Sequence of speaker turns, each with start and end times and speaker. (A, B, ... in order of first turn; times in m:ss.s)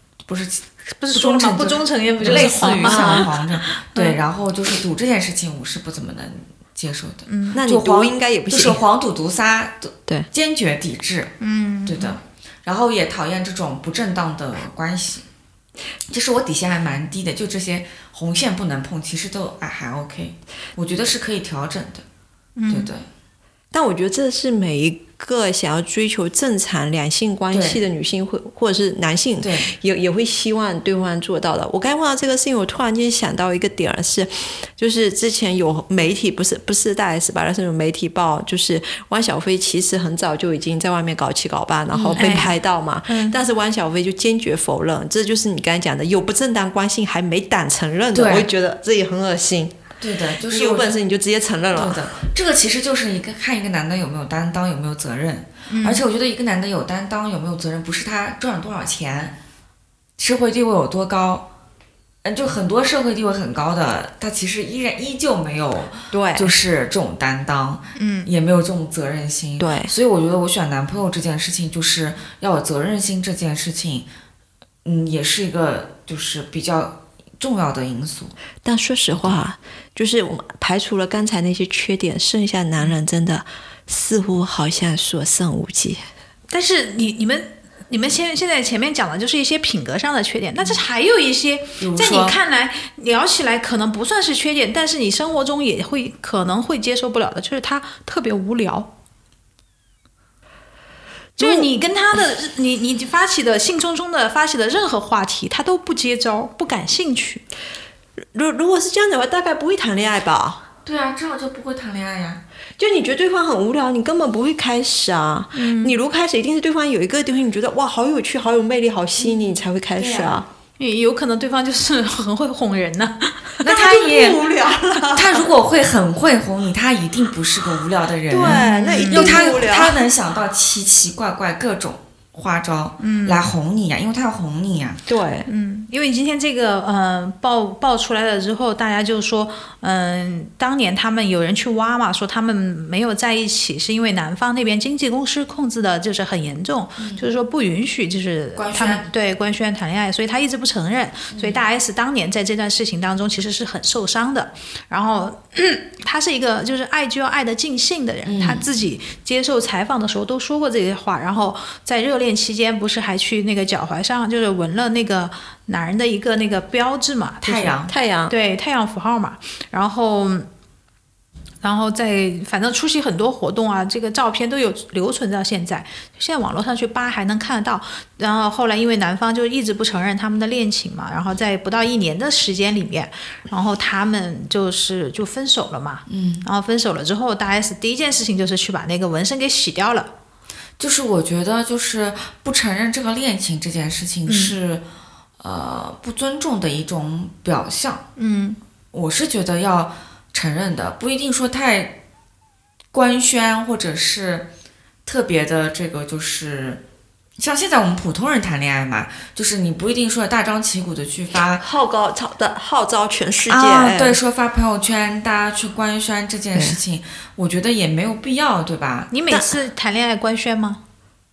0:00.3-0:11.3 A
0:01.0-0:03.4 B
0:02.2-0:03.3 C
0:03.9-0:04.2 B
0:07.3-0:07.6 B
0:07.5-0:08.8 C
0:11.4-0:12.2 B
0:11.9-0:15.3 A
0:16.1-0:22.0 A
0:22.6-0:22.9 B
0:22.7-0:23.1 A
0:23.7-0:49.8 C
0:27.5-0:27.8 A
0:29.4-0:29.7 A
0:41.9-0:42.4 A
0:42.2-0:42.6 B
0:43.1-0:43.4 B
0:48.1-0:48.5 A
0:50.0-0:50.9 A
0:50.5-0:52.0 C
0:51.7-0:59.4 A
0:55.7-0:56.0 B
1:00.2-1:01.5 A
1:02.2-1:14.1 A
1:06.1-1:06.5 C
1:08.0-1:08.3 B
1:09.6-1:09.9 C
1:14.8-1:18.4 A
1:18.6-1:26.0 C
1:26.5-1:38.9 B
1:31.8-1:32.4 A
1:41.4-1:47.4 B
1:41.4-1:41.7 C
1:48.3-1:50.6 C
1:50.8-1:52.4 A
1:52.8-2:00.5 C
1:55.6-1:56.0 B
2:00.0-2:00.4 A
2:00.8-2:03.6 B
2:03.6-2:04.4 A
2:03.6-2:05.5 C
2:05.1-2:15.0 A
2:08.3-2:10.0 C
2:08.4-2:09.5 B
2:13.0-2:13.5 B
2:15.1-2:15.5 C
2:15.5-2:50.5 B
2:27.0-2:27.2 A
2:28.6-2:29.1 A
2:31.3-2:31.6 A
2:38.2-2:38.7 A
2:47.4-2:47.9 A
2:47.9-2:48.4 C
2:51.6-3:10.1 B
3:06.1-3:06.5 A
3:10.8-3:14.8 A
3:14.3-3:14.6 B
3:15.4-3:18.0 A
3:18.2-3:18.6 B
3:18.9-3:22.0 A
3:22.9-3:24.5 A
3:25.1-3:26.8 A
3:27.4-3:31.6 A
3:31.6-3:34.2 C
3:33.5-3:39.1 A
3:39.1-3:40.8 B